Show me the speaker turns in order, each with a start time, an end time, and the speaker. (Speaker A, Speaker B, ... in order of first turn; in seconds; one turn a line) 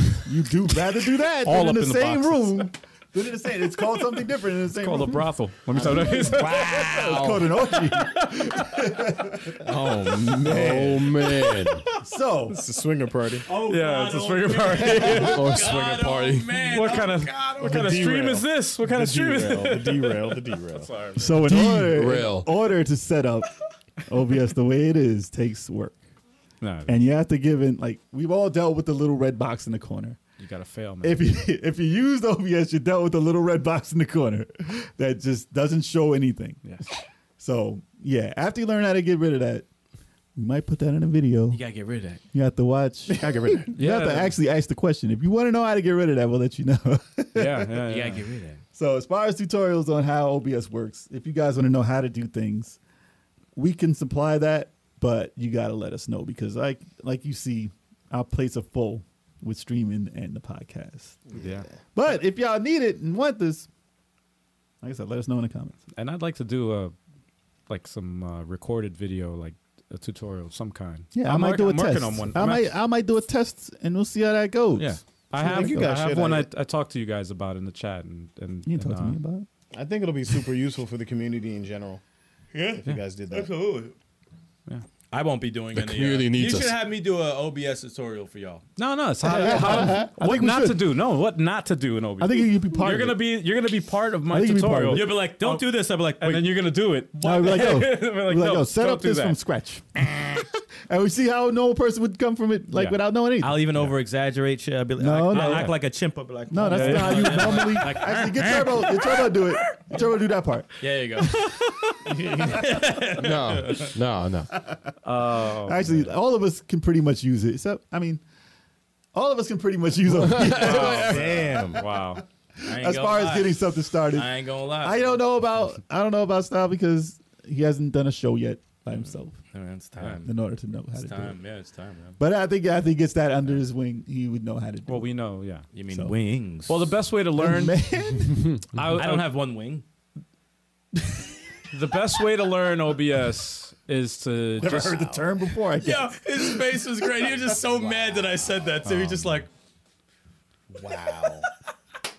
Speaker A: 0.2-5.2
Speaker B: 1.4-2.7
Speaker B: 4.7-6.9
Speaker C: 5.7-7.4
Speaker A: 5.8-9.6
Speaker B: 7.7-8.7
Speaker C: 9.6-11.3
Speaker D: 9.9-11.9
Speaker A: 12.0-12.6
Speaker C: 12.5-13.5
Speaker B: 13.5-15.5
Speaker A: 13.5-15.2
Speaker E: 13.6-17.6
Speaker D: 15.2-16.6
Speaker B: 16.7-21.6
Speaker C: 17.6-20.9
Speaker A: 21.1-23.5
Speaker D: 21.4-22.5
Speaker A: 24.1-26.0
Speaker B: 26.6-27.0
Speaker A: 26.9-30.2
Speaker B: 30.4-31.2
Speaker A: 31.0-36.7
Speaker B: 36.6-36.9
Speaker A: 37.4-39.6
Speaker A: 40.4-41.6
Speaker E: 41.5-42.2
Speaker A: 42.3-47.8
Speaker C: 43.2-43.6
Speaker B: 43.7-44.4
Speaker B: 47.3-48.2
Speaker E: 47.9-48.6
Speaker A: 48.7-52.8
Speaker A: 53.5-61.2
Speaker C: 61.3-61.8
Speaker B: 61.3-61.7
Speaker A: 61.9-63.7
Speaker A: 64.8-65.8
Speaker B: 65.9-66.9
Speaker B: 67.7-72.8
Speaker A: 71.1-75.9
Speaker B: 74.8-79.2
Speaker C: 75.3-76.5
Speaker A: 78.7-79.5
Speaker C: 79.7-82.0
Speaker C: 82.8-83.5
Speaker E: 83.3-83.9
Speaker E: 85.1-88.7
Speaker D: 85.7-86.8
Speaker B: 88.8-99.4
Speaker A: 89.2-90.9
Speaker C: 89.3-90.0
Speaker A: 92.2-93.2
Speaker A: 94.3-95.2
Speaker E: 94.9-96.7
Speaker A: 97.2-103.8
Speaker E: 103.3-109.7
Speaker A: 105.0-105.8
Speaker B: 105.3-105.8
Speaker A: 106.5-111.9
Speaker B: 106.7-107.9
Speaker E: 110.8-113.9
Speaker D: 113.1-114.5
Speaker A: 114.7-118.2
Speaker B: 115.0-116.1
Speaker A: 119.1-129.4
Speaker D: 120.2-121.2
Speaker B: 120.4-122.2
Speaker C: 120.6-121.8
Speaker E: 122.6-125.2
Speaker E: 128.9-130.3
Speaker A: 130.0-131.4
Speaker E: 130.9-132.2
Speaker A: 132.2-135.1
Speaker B: 134.9-135.6
Speaker E: 135.7-136.9
Speaker B: 136.7-137.8
Speaker A: 137.3-138.5
Speaker B: 138.7-139.3
Speaker E: 139.0-139.8
Speaker B: 141.7-145.0
Speaker A: 144.6-146.8
Speaker C: 144.6-145.2
Speaker E: 145.8-149.5
Speaker B: 148.9-149.3
Speaker C: 150.7-151.4